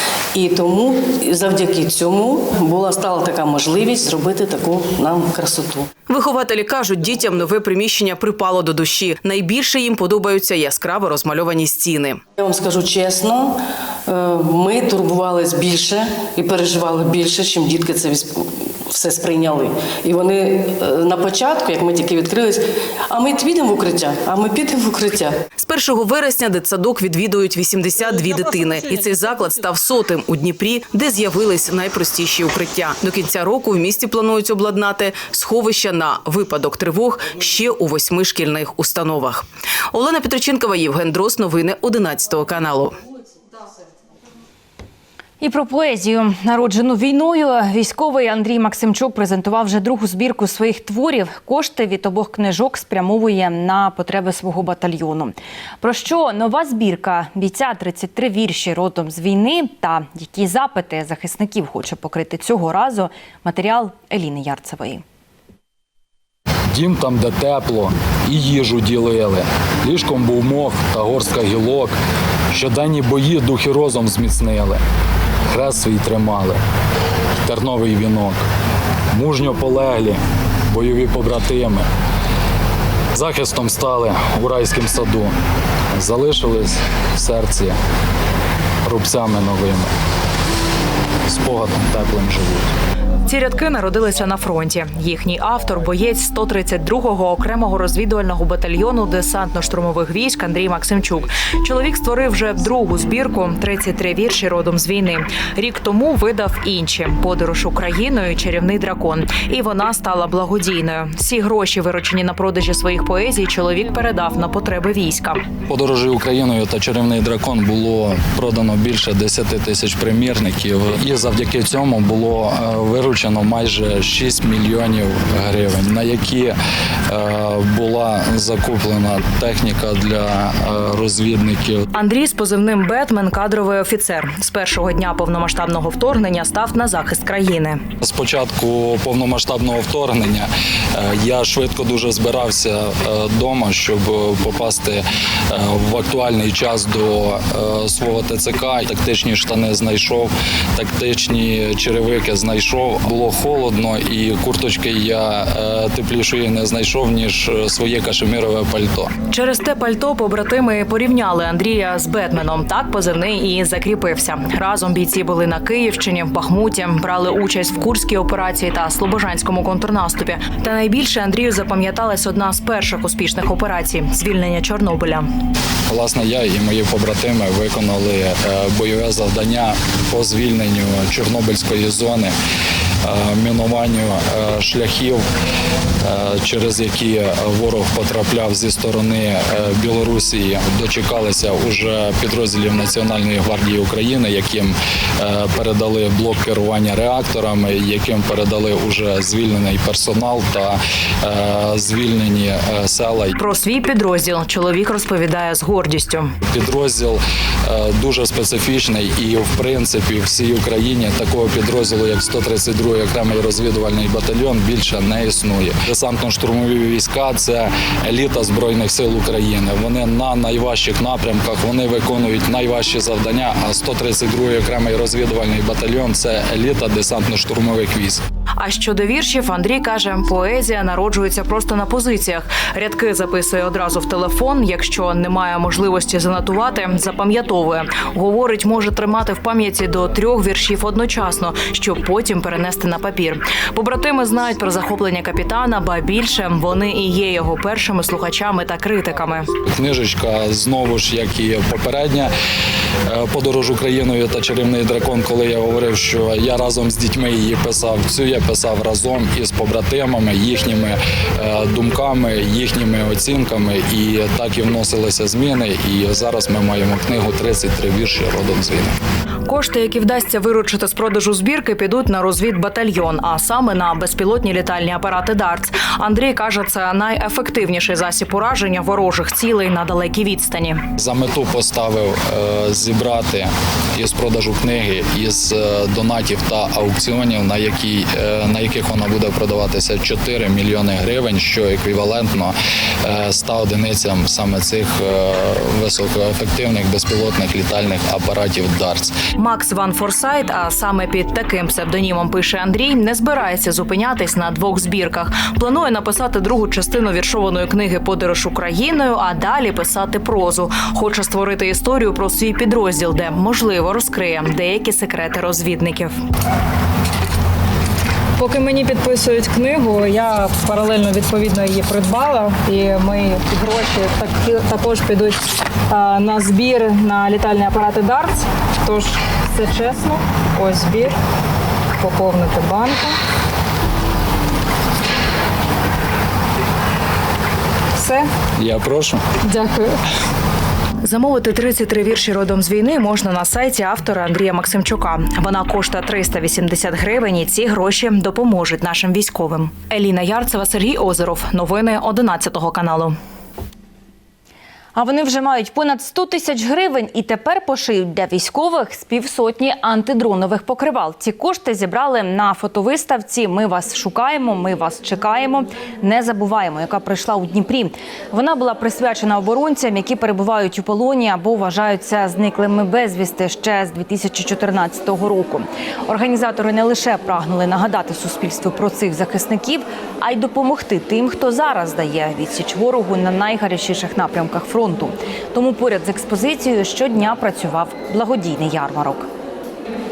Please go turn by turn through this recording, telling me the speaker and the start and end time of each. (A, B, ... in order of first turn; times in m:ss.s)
0:00.3-0:05.9 A
0:06.1-0:12.2 B
0:12.4-0:25.4 A
0:25.6-0:43.0 B
0:45.4-1:05.0 C
1:06.7-1:12.0 D
1:12.5-1:14.8 D
1:15.5-1:16.6 D
1:17.4-1:18.4 D
1:19.1-1:21.9 D
1:23.1-1:25.3 D
1:26.0-1:27.8 D
1:28.8-1:29.9 D
1:31.3-1:32.7 D
1:33.2-1:55.4 E
1:55.7-2:06.6 D
2:07.1-2:11.9 D
2:11.9-2:17.8 E
2:18.0-2:39.1 D
2:39.3-2:55.3 E
2:55.9-3:02.3 D
3:03.0-3:05.2 D
3:06.0-3:23.3 D
3:23.4-3:26.3 E
3:26.5-3:48.2 D
3:48.6-4:09.5 E
4:09.6-4:12.3 D
4:13.0-4:29.0 D
4:29.4-4:40.8 E
4:41.0-4:59.2 D
4:59.4-5:16.2 E
5:18.4-5:31.2 F
5:32.0-5:33.2 F
5:38.0-5:38.3 F
5:38.6-5:39.2 D
5:39.4-5:40.0 F
5:41.0-5:53.2 E
5:55.0-6:29.3 C